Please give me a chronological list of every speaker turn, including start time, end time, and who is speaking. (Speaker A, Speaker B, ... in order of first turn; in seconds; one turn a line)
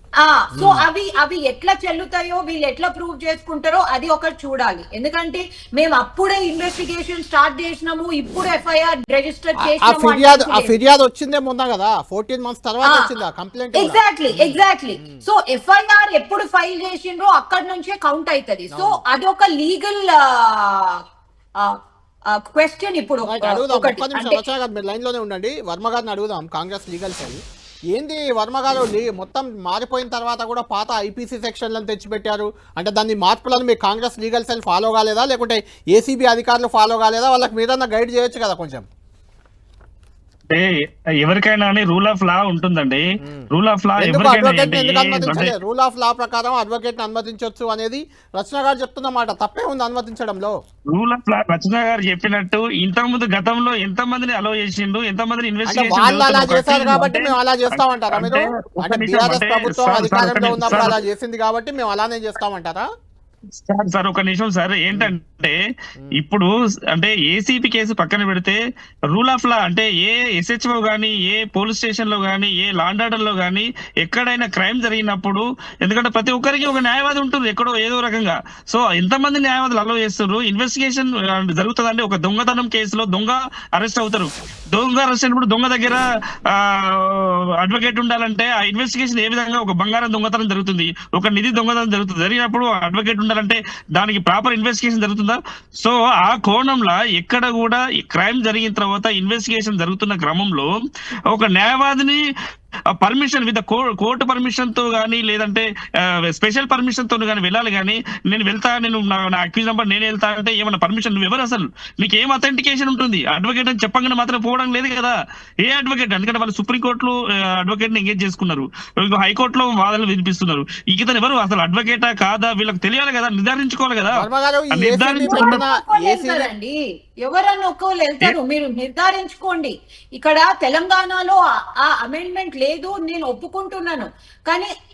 Speaker A: 0.2-10.7
Speaker B: 0.6-0.9
Speaker B: 9.6-15.2
Speaker A: 12.8-13.1
Speaker A: 13.7-21.0
Speaker B: 18.7-19.0
Speaker A: 22.3-24.4
Speaker B: 23.2-27.4
Speaker B: 27.9-38.9
Speaker C: 40.5-45.5
Speaker B: 43.2-43.5
Speaker B: 44.0-50.5
Speaker C: 50.9-57.3
Speaker B: 55.7-62.9
Speaker C: 58.1-61.0
Speaker C: 63.5-65.6
Speaker C: 66.1-68.6
Speaker C: 69.1-100.7
Speaker C: 101.3-102.2
Speaker C: 103.0-125.6
Speaker B: 124.1-126.5
Speaker A: 125.2-134.7